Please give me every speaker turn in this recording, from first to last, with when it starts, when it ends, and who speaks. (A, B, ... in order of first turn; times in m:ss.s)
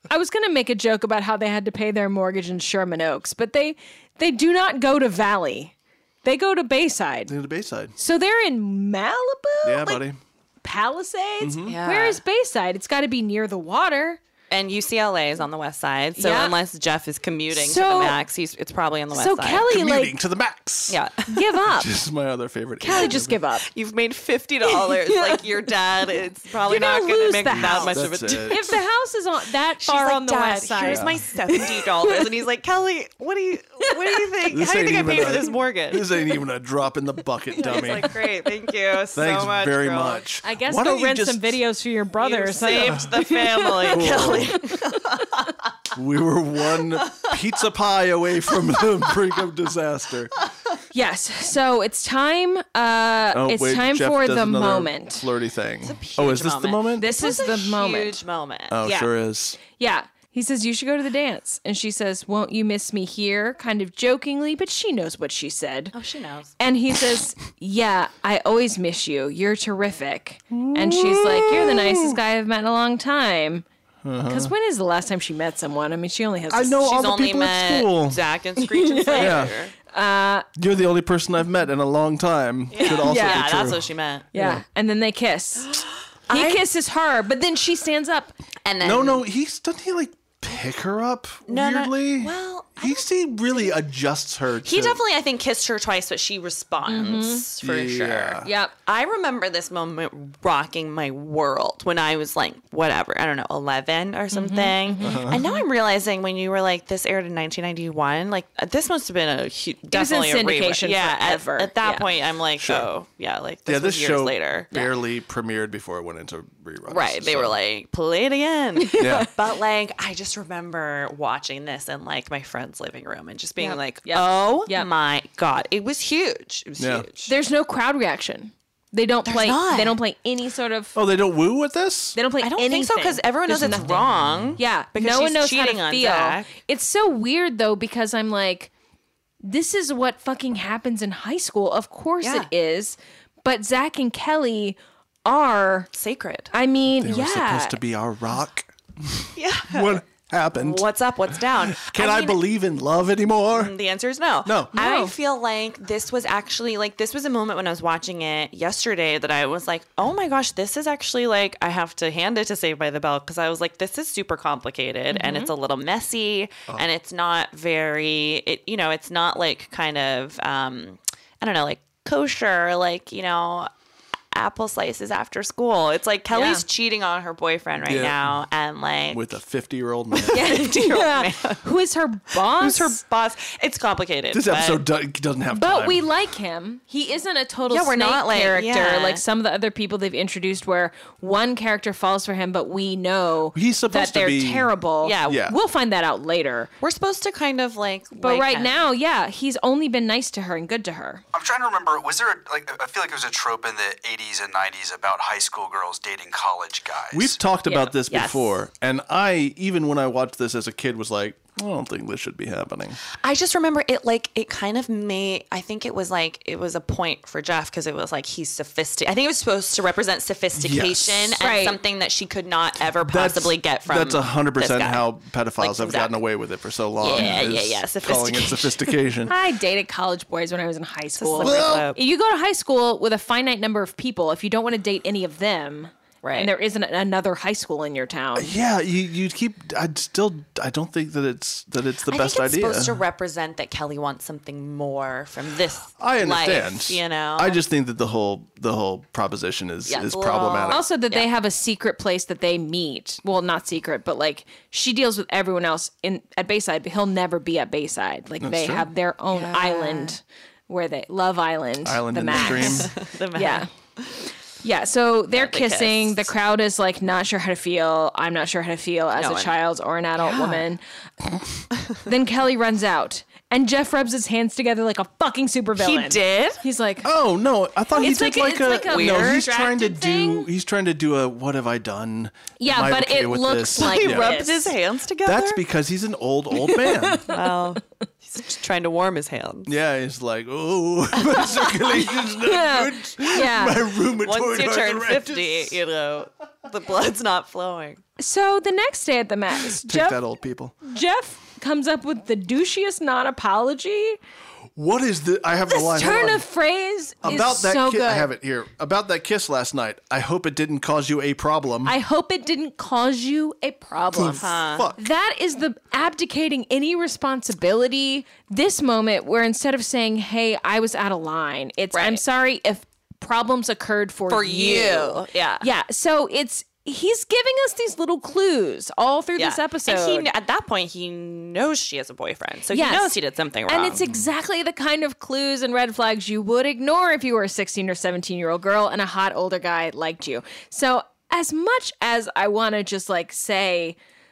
0:00.1-0:05.7 A
0:06.2-0:07.3 A
0:07.3-0:07.9 B
0:08.0-0:10.0 A
0:09.6-0:10.2 B
0:10.6-0:14.2 A
0:11.4-0:11.8 B
0:11.7-0:12.2 C
0:14.5-0:19.7 C
0:16.2-0:16.6 A
0:17.5-0:18.2 A
0:19.1-0:20.2 A
0:19.7-0:21.0 B
0:20.9-0:21.3 C
0:21.3-0:21.9 A
0:21.6-0:23.4 B
0:22.8-0:23.7 A
0:23.6-0:28.8 C
0:24.7-0:25.4 A
0:26.6-0:32.2 A
0:27.5-0:28.7 B
0:29.8-0:36.1 C
0:30.8-0:31.2 B
0:33.8-0:34.3 A
0:34.5-0:38.2 B
0:37.6-0:40.2 C
0:39.1-0:41.6 B
0:40.4-0:45.3 A
0:42.2-0:45.6 C
0:43.9-0:44.6 B
0:45.9-0:50.3 B
0:47.1-0:47.4 C
0:50.9-0:55.3 A
0:53.3-0:57.1 B
0:55.8-0:58.8 C
0:57.0-0:58.2 A
0:58.7-0:59.6 B
0:58.8-0:59.1 A
0:59.6-1:05.9 A
1:05.9-1:06.5 C
1:06.6-1:13.6 A
1:10.5-1:12.2 B
1:14.0-1:14.5 B
1:14.2-1:16.8 A
1:16.5-1:18.2 B
1:16.8-1:19.7 C
1:18.6-1:20.5 A
1:19.2-1:19.6 B
1:20.6-1:24.6 B
1:22.7-1:24.3 C
1:22.8-1:23.4 A
1:24.3-1:28.3 A
1:25.6-1:26.7 C
1:28.6-1:29.2 C
1:28.8-1:35.0 B
1:31.5-1:33.8 C
1:34.6-1:54.7 C
1:36.9-1:37.4 A
1:37.6-1:38.5 B
1:38.4-1:38.7 A
1:44.3-1:45.6 A
1:45.0-1:45.4 B
1:49.9-1:52.1 A
1:52.6-1:52.9 B
1:53.7-1:57.6 B
1:56.9-2:07.3 C
1:58.8-1:59.3 A
1:59.0-1:59.3 B
2:03.6-2:04.9 A
2:06.8-2:07.1 B
2:07.3-2:11.0 A
2:09.3-2:10.0 C
2:11.0-2:12.2 B
2:12.2-2:14.0 A
2:12.4-2:16.5 C
2:14.1-2:14.6 B
2:14.6-2:18.7 A
2:19.4-2:25.9 A
2:22.2-2:22.5 C
2:25.9-2:26.5 C
2:26.5-2:27.8 A
2:27.0-2:30.8 B
2:29.4-2:30.0 C
2:30.6-2:32.4 C
2:31.4-2:33.7 B
2:33.5-2:53.7 C
2:34.4-2:34.7 B
2:34.8-2:35.1 A
2:45.1-2:45.5 A
2:54.3-2:59.3 C
2:56.3-2:56.6 A
2:57.8-2:58.4 B
2:59.1-3:00.6 B
3:00.2-3:01.6 C
3:00.3-3:03.0 A
3:02.4-3:04.8 C
3:04.3-3:06.0 B
3:05.5-3:16.7 A
3:07.7-3:09.2 C
3:13.5-3:14.7 B
3:15.0-3:15.5 C
3:15.2-3:15.6 B
3:16.8-3:18.8 C
3:18.2-3:21.2 A
3:21.3-3:27.3 D
3:27.1-3:33.0 B
3:27.7-3:28.6 C
3:33.2-3:46.2 C
3:40.6-3:41.4 B
3:41.4-3:41.8 A
3:43.1-3:49.3 B
3:47.0-3:49.0 C
3:49.3-3:58.5 A
3:51.2-3:52.0 C
3:51.4-3:51.9 B
3:56.2-3:56.5 C
3:58.4-4:03.0 B
4:02.1-4:07.6 C
4:06.0-4:10.8 B
4:09.9-4:11.3 C
4:10.7-4:23.7 A
4:18.4-4:18.9 B
4:19.3-4:20.2 C
4:21.8-4:22.9 B
4:22.3-4:24.3 C
4:24.6-4:30.8 A
4:25.3-4:26.3 C
4:29.2-4:29.5 C
4:30.2-4:30.6 C
4:32.0-4:37.1 A
4:35.8-4:36.6 C
4:37.0-4:44.5 B
4:37.9-4:40.5 A
4:38.7-4:39.5 C
4:42.6-4:44.7 A
4:43.8-4:45.6 C
4:45.2-4:47.2 B
4:46.8-4:47.3 A
4:47.3-4:49.7 C
4:49.7-4:55.8 B
4:52.4-4:53.8 A
4:54.2-4:58.0 C
4:58.2-5:00.2 A
4:59.6-5:00.8 B
5:00.8-5:04.2 A
5:04.8-5:06.4 B
5:05.7-5:08.3 A
5:07.2-5:11.9 B
5:11.8-5:30.3 A
5:14.1-5:15.1 B
5:14.4-5:14.9 C
5:21.9-5:22.2 C
5:24.3-5:25.6 C
5:29.4-5:34.0 C
5:32.7-5:33.2 A
5:33.7-5:44.0 A